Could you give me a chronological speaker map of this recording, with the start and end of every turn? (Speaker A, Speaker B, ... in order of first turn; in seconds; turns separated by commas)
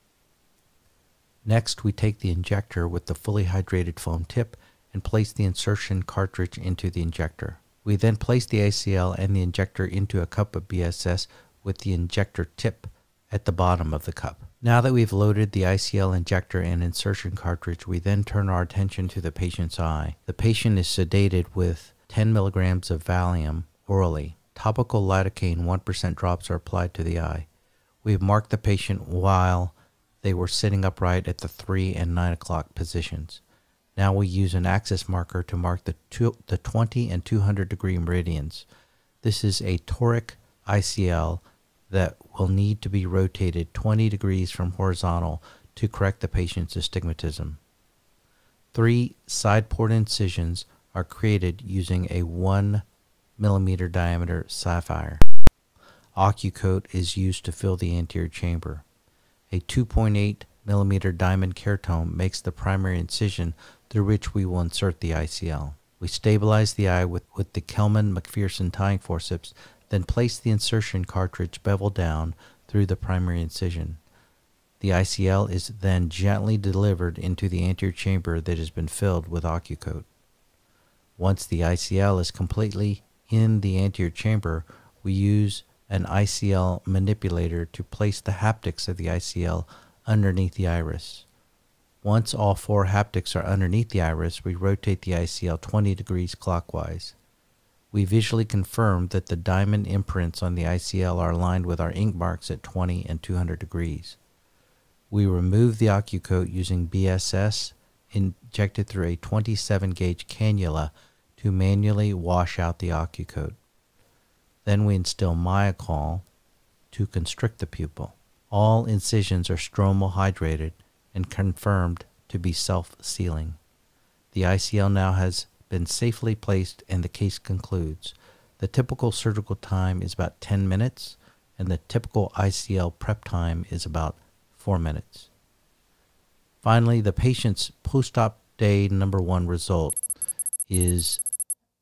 Speaker A: 1.4-27.5, Speaker A: 28.0-33.4, Speaker A: 34.0-38.6, Speaker A: 39.2-47.6, Speaker A: 48.7-52.8, Speaker A: 53.4-55.2, Speaker A: 56.1-58.8, Speaker A: 59.5-74.0, Speaker A: 74.8-80.1, Speaker A: 81.2-91.3, Speaker A: 92.0-97.2, Speaker A: 97.9-104.2, Speaker A: 105.1-113.6, Speaker A: 114.6-116.2, Speaker A: 116.9-123.6, Speaker A: 124.3-135.3, Speaker A: 136.6-140.0, Speaker A: 140.7-141.2